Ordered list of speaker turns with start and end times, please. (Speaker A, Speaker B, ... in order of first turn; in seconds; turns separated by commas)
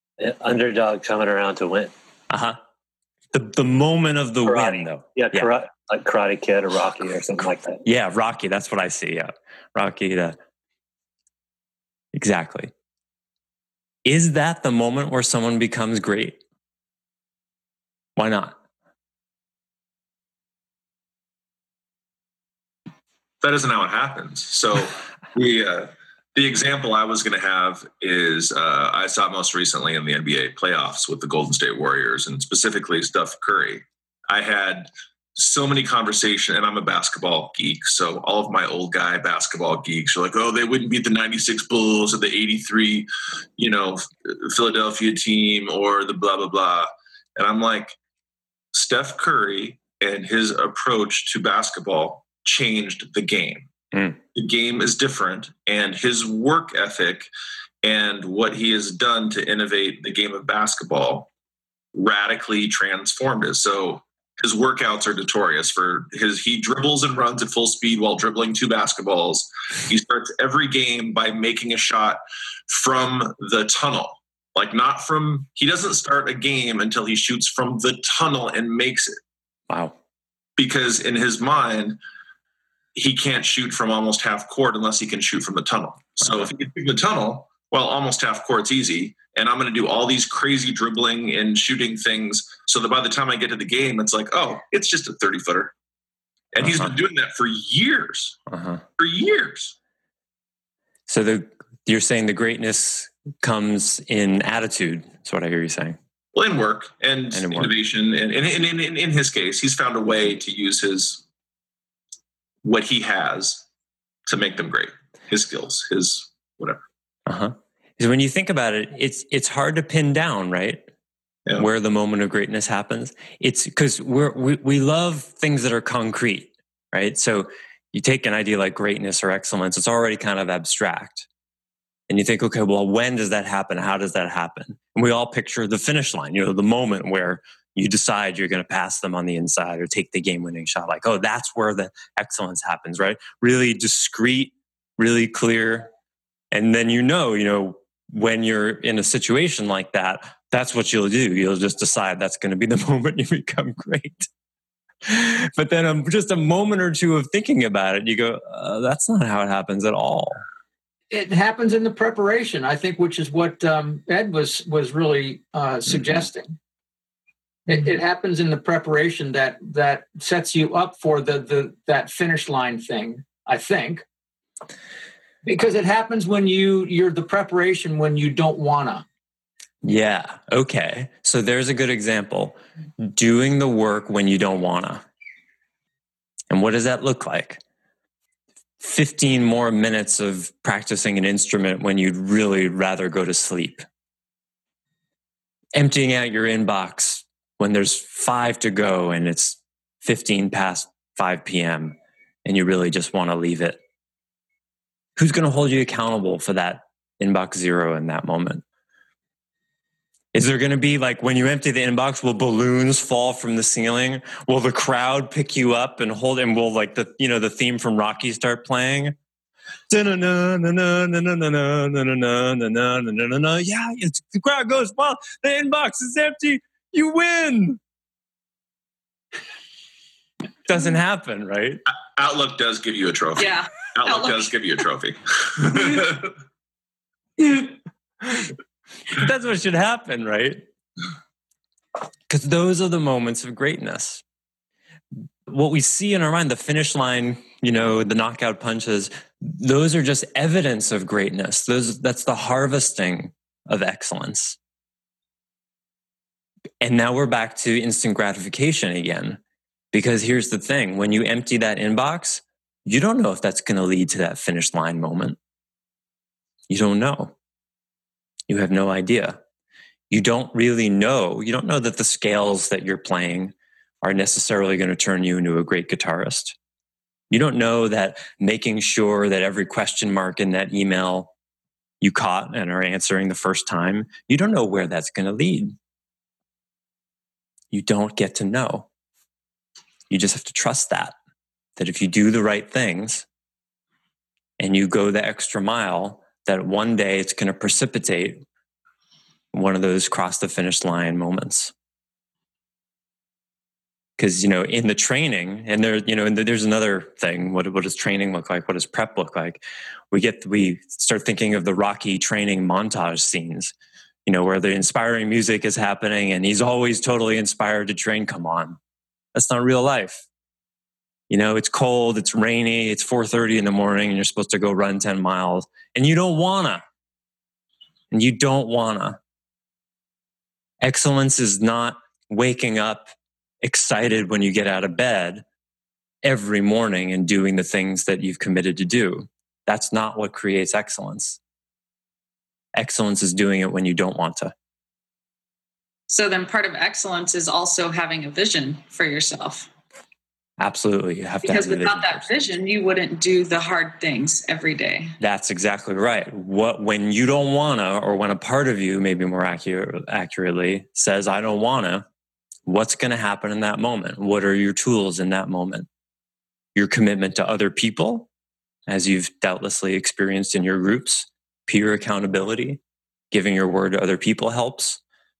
Speaker A: 0.2-1.9, Speaker B: 2.3-2.6, Speaker B: 3.3-5.5, Speaker A: 4.4-7.8, Speaker B: 7.8-10.3, Speaker B: 12.1-12.7, Speaker B: 14.0-16.4, Speaker B: 18.2-18.6, Speaker C: 23.4-43.1, Speaker C: 43.6-48.0, Speaker C: 48.7-53.7, Speaker B: 53.9-54.2, Speaker C: 54.3-57.3, Speaker C: 57.8-61.3, Speaker C: 61.9-79.1, Speaker B: 79.7-79.9, Speaker C: 80.6-82.0, Speaker C: 82.9-95.7, Speaker B: 86.2-86.5, Speaker C: 96.5-98.4, Speaker B: 96.6-96.9, Speaker B: 98.5-98.8, Speaker C: 99.0-99.7, Speaker B: 101.1-106.0, Speaker C: 106.3-111.2, Speaker B: 107.3-107.7, Speaker C: 112.6-113.7, Speaker C: 114.3-116.8, Speaker B: 117.3-120.8, Speaker B: 121.6-131.3, Speaker B: 132.1-145.9, Speaker B: 146.5-154.3, Speaker B: 155.1-160.4, Speaker D: 161.1-166.5, Speaker D: 167.7-174.0, Speaker D: 175.4-179.0, Speaker B: 179.8-185.0, Speaker B: 186.5-187.6, Speaker B: 188.8-193.8, Speaker B: 195.7-203.8, Speaker B: 205.2-208.6, Speaker B: 210.3-219.1, Speaker B: 219.9-227.8, Speaker B: 230.7-231.8, Speaker C: 232.2-236.3, Speaker E: 233.4-234.5, Speaker B: 237.4-237.7, Speaker B: 239.1-240.6, Speaker B: 242.3-244.2, Speaker B: 245.5-254.6, Speaker B: 256.8-259.4, Speaker B: 259.9-265.4, Speaker B: 266.7-267.3, Speaker B: 268.5-269.4, Speaker B: 270.1-276.6, Speaker B: 277.3-281.3, Speaker B: 282.0-285.7, Speaker B: 287.7-288.9, Speaker B: 290.1-291.1, Speaker B: 291.8-293.2, Speaker B: 294.6-298.4, Speaker B: 299.5-301.7, Speaker B: 304.2-313.7, Speaker B: 314.2-318.8, Speaker B: 319.3-320.2, Speaker B: 321.3-326.8, Speaker B: 328.1-329.2, Speaker B: 330.8-335.4, Speaker B: 336.2-341.4, Speaker B: 342.7-344.5, Speaker E: 346.1-349.7, Speaker B: 350.6-352.3, Speaker E: 351.4-355.1, Speaker B: 355.2-362.0, Speaker B: 362.6-365.9, Speaker B: 366.7-368.3, Speaker B: 368.9-372.8, Speaker B: 373.3-375.0